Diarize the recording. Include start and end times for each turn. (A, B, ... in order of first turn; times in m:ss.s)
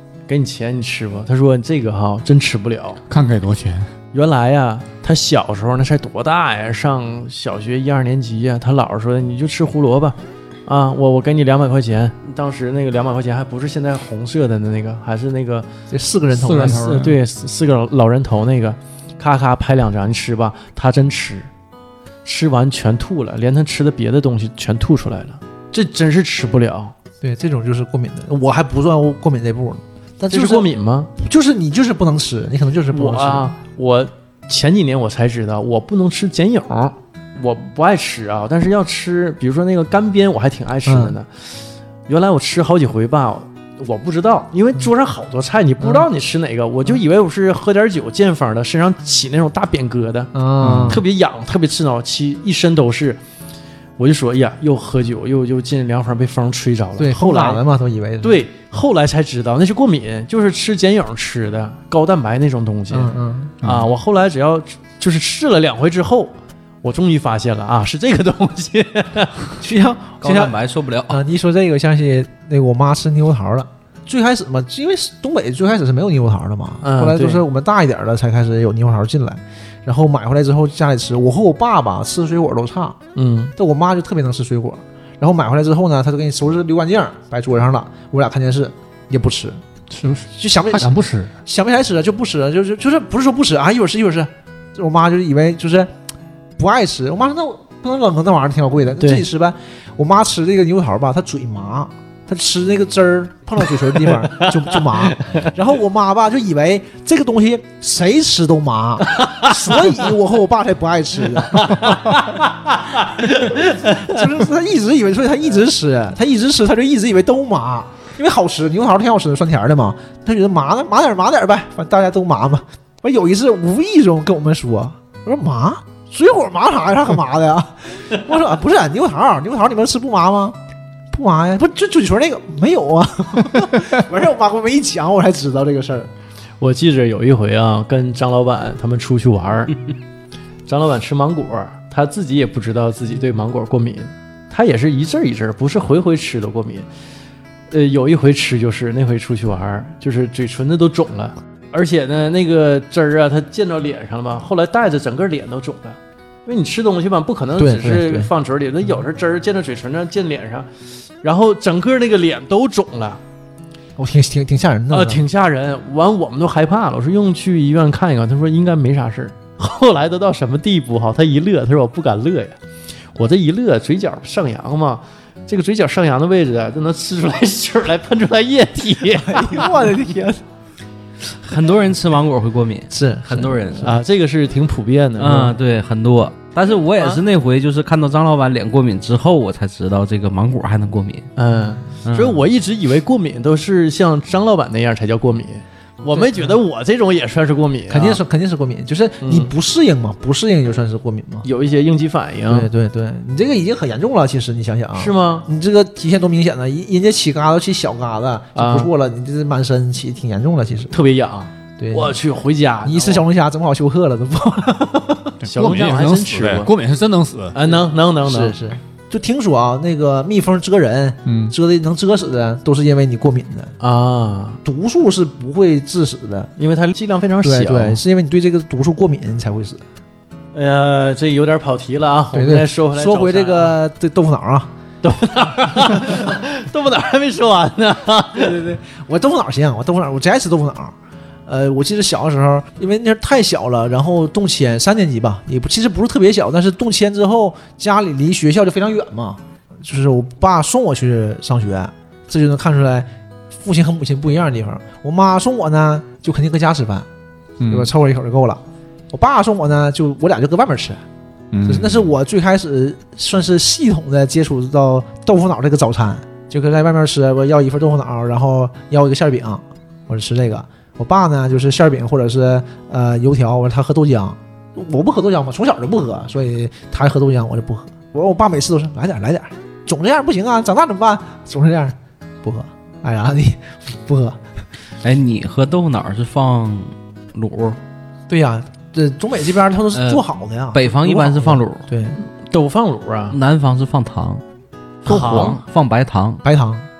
0:00.3-0:03.0 A
0:03.1-0:03.9 B
0:04.1-0:15.7 A
0:15.9-0:17.0 C
0:16.3-0:17.2 B
0:16.6-0:21.5 A
0:22.2-0:26.9 A
0:27.2-0:33.5 C
0:30.3-0:31.1 A
0:32.9-0:41.4 A
0:40.9-0:41.2 C
0:42.1-0:50.3 A
0:45.8-0:46.1 C
0:50.3-0:51.0 C
0:50.6-0:51.0 B
0:50.9-0:53.2 A
0:54.0-0:57.6 A
0:57.0-0:58.4 C
0:58.2-1:09.5 A
1:02.9-1:03.6 C
1:03.6-1:03.9 B
1:09.6-1:10.6 C
1:10.2-1:11.2 D
1:11.1-1:23.0 C
1:16.8-1:17.4 A
1:23.1-1:23.5 A
1:23.6-1:29.6 C
1:29.9-1:31.3 B
1:30.3-1:35.9 C
1:36.6-1:52.2 C
1:39.0-1:39.3 A
1:44.3-1:45.5 A
1:49.2-1:49.5 A
1:51.5-1:54.2 A
1:53.4-2:10.6 C
2:11.1-2:16.1 C
2:16.6-2:19.8 A
2:20.7-2:26.9 A
2:27.7-2:40.7 A
2:37.6-2:38.3 C
2:41.2-2:43.2 A
2:44.0-2:45.2 C
2:44.9-2:52.6 A
2:53.2-2:59.8 A
2:59.2-3:00.4 C
3:01.4-3:03.9 D
3:02.9-3:03.9 C
3:03.8-3:05.6 A
3:05.2-3:11.3 D
3:11.4-3:18.2 A
3:12.0-3:12.4 D
3:16.2-3:16.5 C
3:17.9-3:21.4 C
3:19.2-3:19.5 A
3:21.4-3:22.7 A
3:22.5-3:31.0 C
3:25.0-3:25.5 A
3:28.6-3:28.9 A
3:30.9-3:33.3 A
3:31.8-3:32.2 C
3:32.8-3:35.4 C
3:35.4-3:37.6 B
3:35.4-3:36.7 A
3:37.5-3:38.6 A
3:38.2-3:43.7 C
3:41.3-3:41.6 B
3:43.8-3:44.6 A
3:44.6-3:46.5 C
3:46.6-3:48.0 A
3:47.4-3:49.8 C
3:50.5-3:53.8 A
3:52.3-3:54.7 C
3:55.0-3:58.6 A
3:58.3-4:01.0 C
4:01.4-4:17.1 C
4:17.6-4:17.9 B
4:17.6-4:21.0 C
4:21.5-4:22.0 B
4:21.7-4:44.4 C
4:45.0-4:47.8 D
4:48.3-4:52.2 C
4:49.9-4:51.9 D
4:52.2-4:53.4 A
4:53.3-4:54.4 D
4:55.0-4:56.4 D
4:55.0-4:55.6 A
4:55.1-4:55.5 C
4:56.4-4:56.9 C